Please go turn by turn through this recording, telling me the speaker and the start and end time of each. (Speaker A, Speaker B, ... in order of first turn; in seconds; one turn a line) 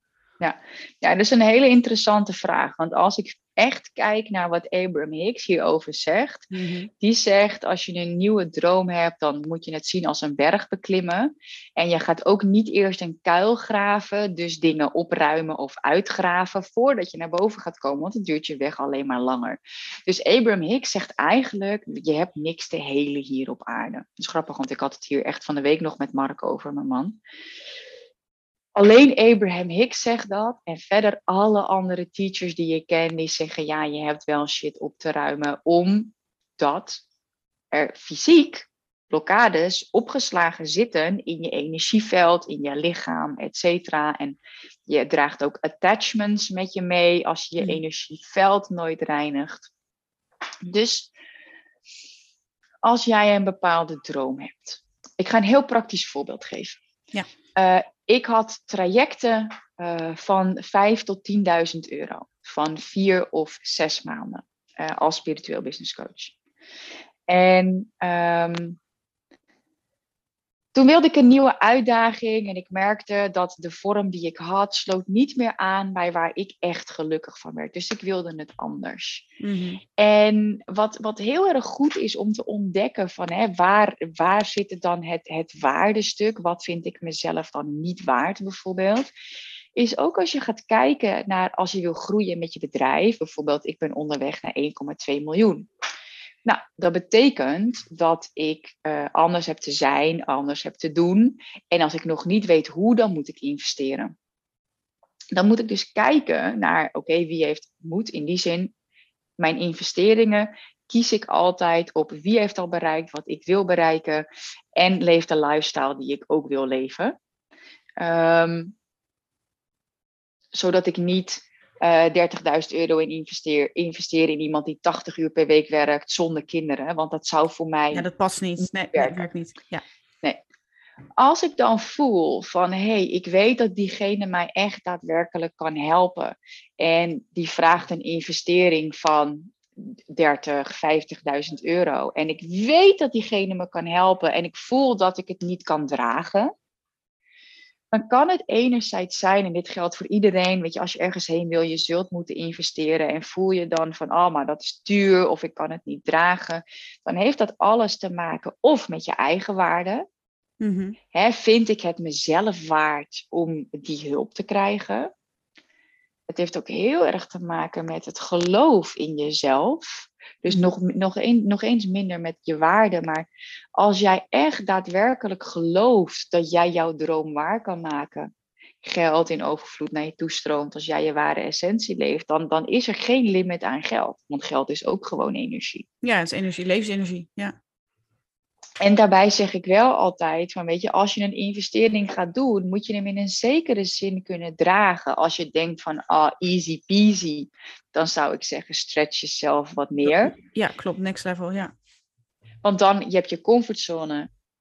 Speaker A: 0.4-27.2
Speaker B: 6.5-6.9
Speaker A: 28.8-37.0
Speaker A: 37.7-49.7
Speaker A: 50.6-51.1
Speaker A: 52.8-56.8
Speaker A: 57.6-66.3
Speaker A: 67.3-68.8
Speaker A: 70.8-79.3
Speaker B: 79.4-79.8
Speaker A: 80.0-89.1
Speaker A: 89.8-95.7
Speaker A: 96.5-104.1
Speaker A: 105.3-108.7
Speaker A: 109.4-117.2
Speaker A: 118.0-118.8
Speaker A: 120.5-128.1
Speaker B: 127.9-129.8
Speaker A: 128.6-129.3
Speaker A: 131.2-146.5
Speaker A: 147.9-160.0
Speaker B: 160.6-161.0
Speaker A: 161.1-165.1
Speaker A: 166.3-178.3
Speaker A: 178.8-185.9
Speaker B: 186.0-187.6
Speaker A: 188.8-200.3
Speaker B: 200.1-201.7
Speaker A: 202.6-204.3